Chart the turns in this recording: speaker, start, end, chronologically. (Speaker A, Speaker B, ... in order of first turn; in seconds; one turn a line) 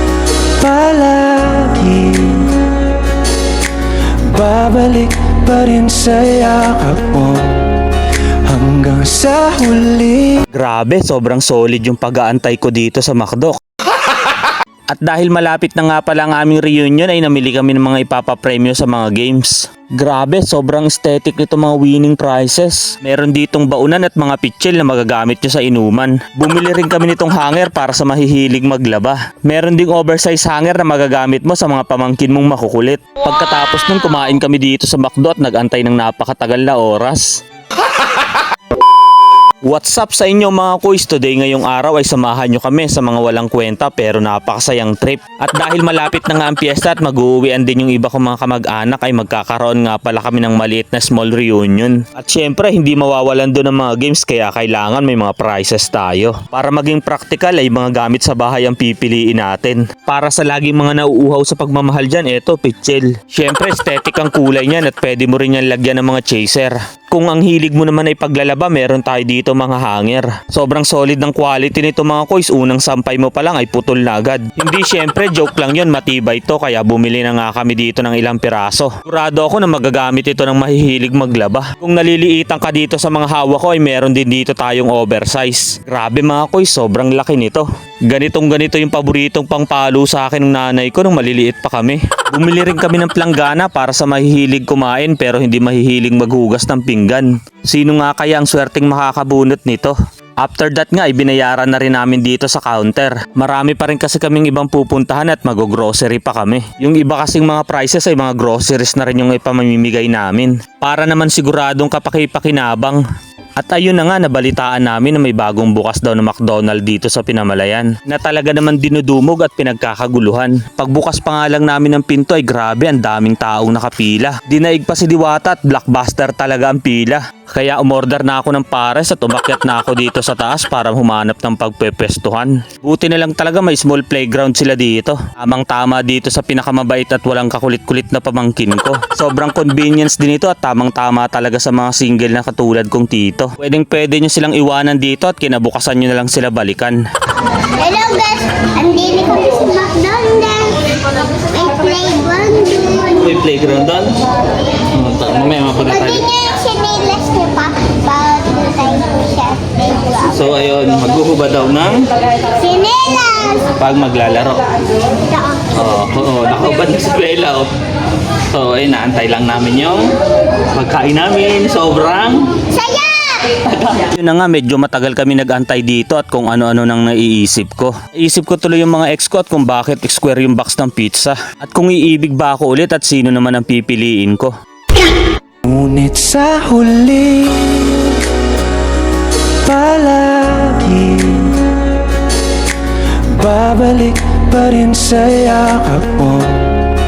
Speaker A: 0.6-2.6
Speaker A: 4.2-7.7
Speaker A: 8.5-10.4
Speaker B: 10.5-13.6
Speaker B: 14.9-37.4
Speaker B: 39.6-113.0
Speaker B: 113.6-147.0
Speaker C: 147.8-153.2
Speaker B: 153.2-154.1
Speaker B: 154.9-156.3
Speaker C: 155.9-160.5
Speaker B: 160.3-162.1
Speaker C: 162.5-163.7
Speaker B: 163.7-164.7
Speaker C: 165.2-165.9
Speaker B: 165.7-167.7
Speaker B: 168.5-170.1
Speaker B: 170.7-172.7
Speaker C: 172.7-173.4
Speaker B: 173.5-184.5
Speaker A: 185.6-188.2
Speaker A: 189.6-191.7
Speaker A: 193.3-196.8